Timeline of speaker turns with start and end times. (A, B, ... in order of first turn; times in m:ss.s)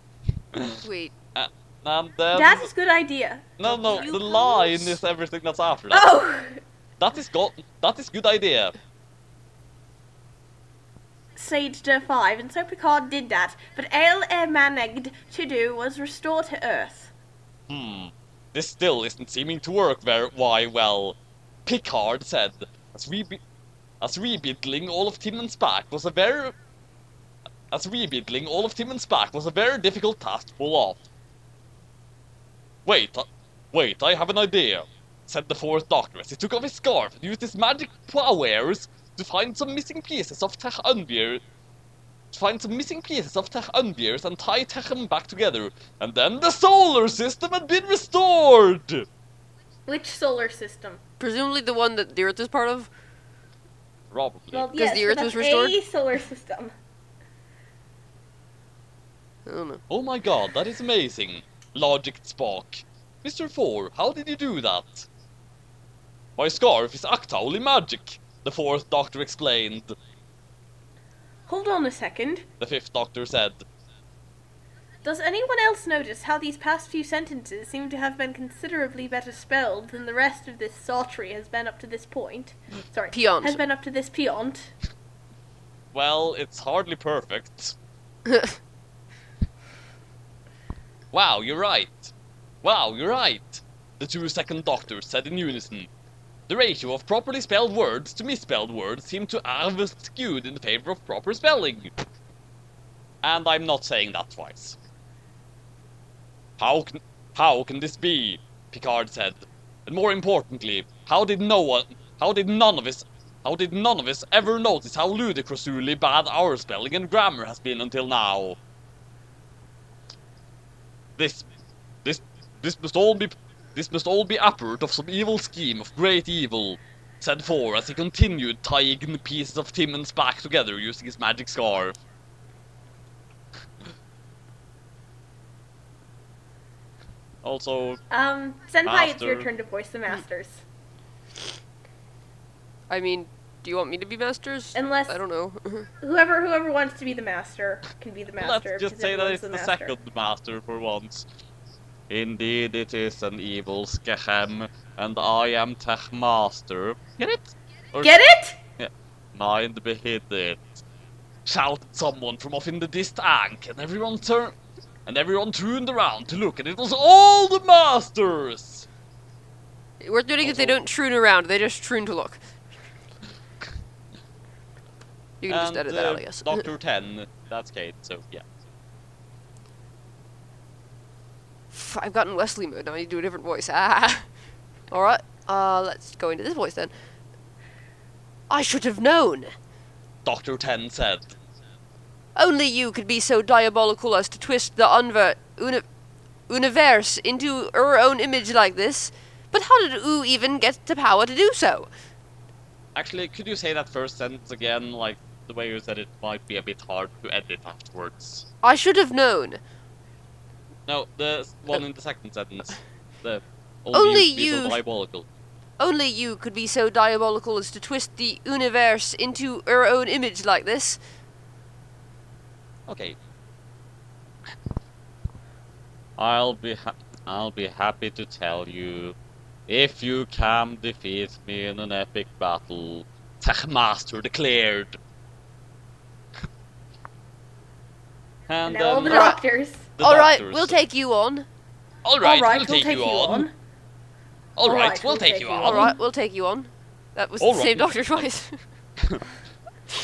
0:00.5-0:00.8 A
0:00.8-0:01.1 B
0:01.3-0:02.7 A
0:02.3-0:05.0 C
0:03.6-0:06.1 A
0:03.6-0:04.7 B
0:05.9-0:06.6 C
0:07.0-0:08.7 A
0:11.4-0:17.1 C
0:17.7-0:23.4 A
0:24.0-0:26.6 A
0:27.7-0:31.0 A
0:32.8-0:41.4 A
0:42.3-0:49.0 A
0:49.9-0:51.0 C
0:51.2-0:52.9 B
0:54.1-0:54.7 A
0:54.5-0:56.7 C
0:54.8-0:55.8 B
0:59.4-0:59.8 B
0:59.9-1:05.1 A
1:06.4-1:09.9 A
1:11.5-1:12.4 C
1:12.6-1:13.6 A
1:15.0-1:24.7 C
1:23.1-1:23.6 B
1:25.9-1:27.8 A
1:31.1-1:35.9 A
1:36.5-1:41.9 A
1:43.2-1:44.8 A
1:46.6-1:58.6 A
2:01.2-2:01.5 A
2:02.0-2:12.0 A
2:17.4-2:18.0 A
2:18.1-2:20.6 C
2:18.8-2:19.5 A
2:22.9-2:25.9 B
2:24.7-2:25.2 C
2:26.0-2:30.0 C
2:28.4-2:31.3 A
2:32.1-2:38.1 A
2:38.0-2:38.6 C
2:38.8-2:40.7 A
2:41.4-2:48.8 A
2:50.0-2:52.4 B
2:50.4-2:50.8 A
2:55.4-2:56.7 B
2:55.5-2:58.4 A
3:01.7-3:04.3 B
3:04.9-3:06.9 B
3:08.5-3:09.5 B
3:10.2-3:11.4 A
3:12.4-3:15.8 B
3:16.5-3:21.9 B
3:22.9-3:28.5 A
3:28.6-3:29.6 B
3:30.9-3:35.3 A
3:33.9-3:34.8 B
3:35.8-3:41.0 B
3:42.9-3:43.2 A
3:46.2-3:49.2 A
3:49.7-3:55.0 A
3:58.5-3:59.4 A
3:58.6-3:59.9 C
3:59.1-3:59.4 B
4:00.0-4:00.8 A
4:00.0-4:01.5 B
4:02.0-4:03.5 A
4:02.2-4:03.5 C
4:04.6-4:05.9 A
4:04.6-4:06.0 C
4:05.6-4:08.6 B
4:07.4-4:07.9 A